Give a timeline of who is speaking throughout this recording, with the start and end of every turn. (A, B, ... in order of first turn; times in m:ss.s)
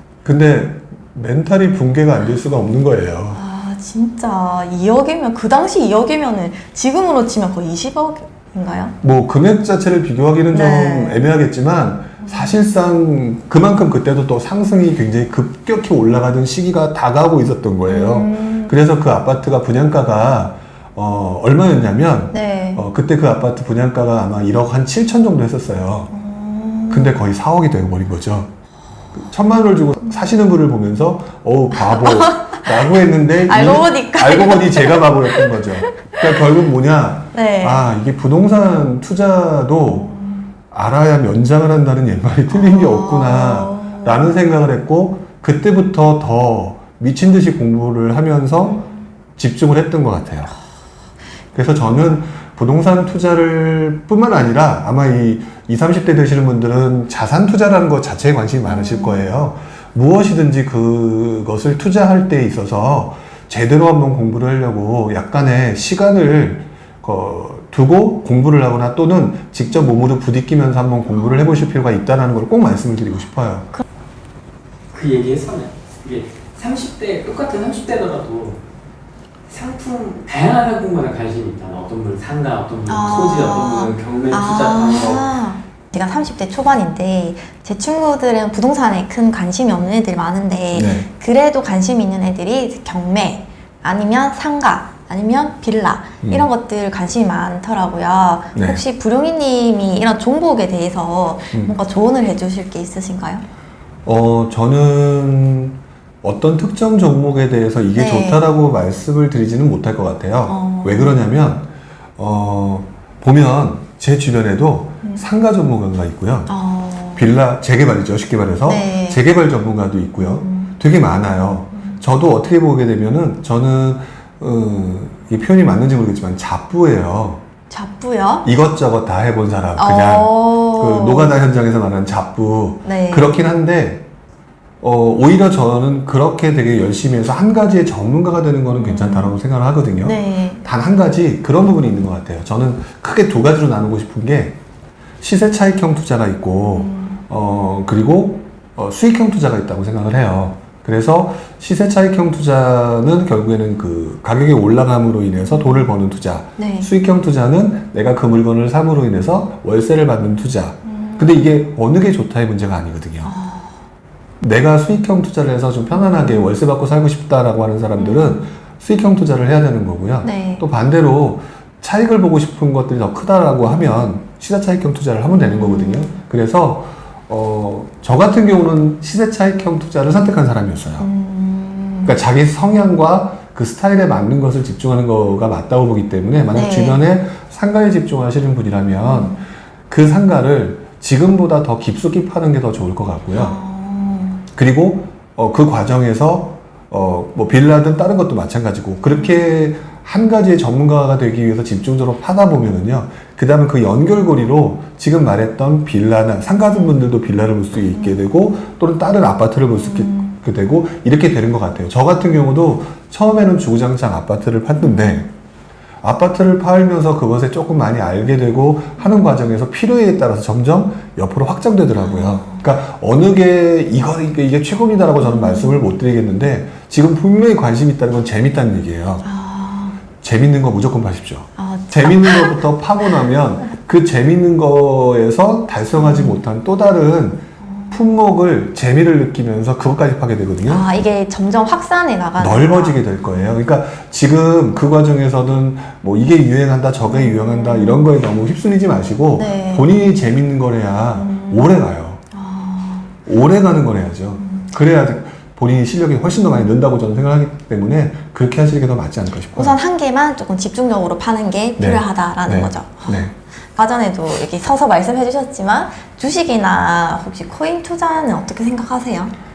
0:00.2-0:03.4 A
0:03.3-0:09.0 B
0:09.0-0:26.1 A
0:10.5-0:11.2 B
0:12.2-0:12.6 B
0:17.9-0:18.8 B
0:22.3-0:22.8 B
0:26.1-0:27.1 B
0:26.9-0:28.5 A
0:29.2-0:40.2 A
0:30.1-0:30.4 B
0:31.7-0:36.5 B
0:37.3-0:37.8 B
0:40.0-0:40.3 B
0:40.7-0:48.8 A
0:42.5-0:44.4 B
0:49.4-0:50.5 A
0:51.5-1:13.7 A
0:58.6-0:59.2 B
1:11.2-1:11.7 B
1:14.9-1:18.6 C
1:19.5-1:25.3 C
1:22.9-1:43.4 B
1:30.7-1:31.1 A
1:36.2-1:36.5 A
1:38.5-1:38.8 A
1:44.0-1:56.5 A
1:48.0-1:48.4 B
1:50.5-1:51.2 B
1:56.5-1:57.3 B
1:57.2-2:07.4 A
1:58.6-1:59.2 B
2:00.2-2:00.7 B
2:01.8-2:02.0 B
2:07.7-2:08.5 B
2:08.4-2:14.0 A
2:09.8-2:11.4 B
2:12.8-2:13.4 B
2:14.8-2:24.6 A
2:18.8-2:19.4 B
2:20.0-2:20.6 B
2:25.2-2:43.3 A
2:26.7-2:27.2 B
2:36.6-2:36.9 B
2:40.8-2:41.5 B
2:43.2-2:43.7 B
2:44.4-3:01.1 A
2:45.9-2:46.5 B
2:48.0-2:48.4 B
2:50.2-2:50.6 B
2:55.3-2:56.1 B
3:01.0-3:02.1 B
3:02.0-3:09.4 A
3:06.5-3:07.0 B
3:09.0-3:09.4 B
3:09.9-3:13.6 A
3:13.3-3:14.4 B
3:14.5-3:35.3 A
3:29.7-3:30.3 B
3:34.8-3:35.2 B
3:36.0-3:49.3 A
3:42.0-3:42.6 B
3:45.2-3:45.8 B
3:49.2-3:50.0 B
3:50.2-4:00.9 A
3:51.6-3:52.6 B
3:55.9-3:56.4 B
3:57.7-3:58.0 B
4:00.6-4:03.6 B
4:02.4-4:12.2 A
4:07.1-4:08.1 B
4:09.3-4:10.0 B
4:11.2-4:11.7 B
4:12.3-4:13.1 B
4:13.2-4:19.8 A
4:14.4-4:14.7 B
4:19.5-4:29.3 B
4:21.8-4:23.3 A